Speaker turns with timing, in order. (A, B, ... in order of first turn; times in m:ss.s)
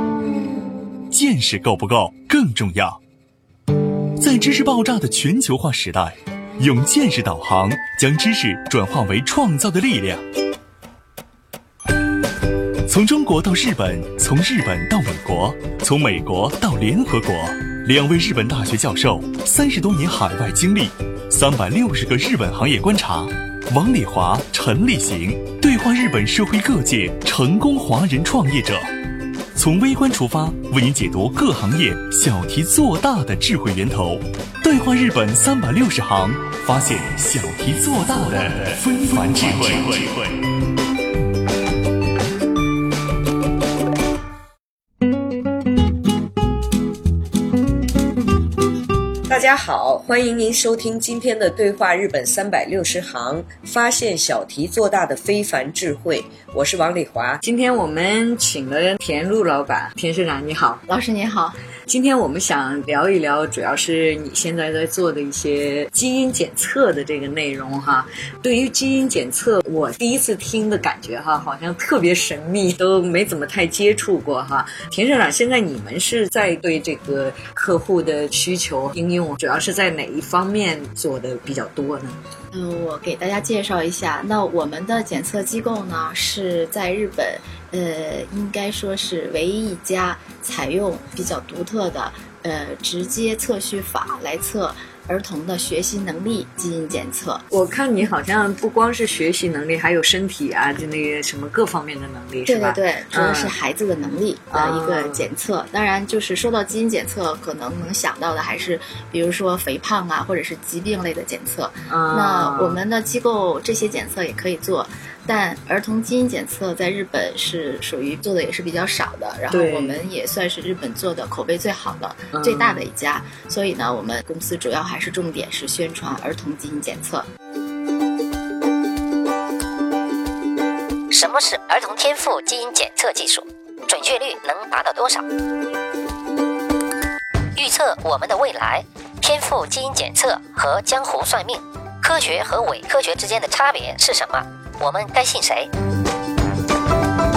0:01.1-0:03.0 A
0:04.2-0:10.2 A
0:12.8-0:28.9 A
0:29.5-0:40.4 A
0:49.3-1:00.8 B
1:00.9-1:01.6 C
1:01.9-1:22.2 B
1:22.5-1:37.4 C
1:37.5-1:43.5 B
1:42.4-2:07.3 C
1:44.5-1:45.2 B
1:51.9-1:52.8 B
1:59.5-2:00.0 B
2:02.3-2:02.8 B
2:11.1-2:15.2 D
2:17.6-2:25.7 D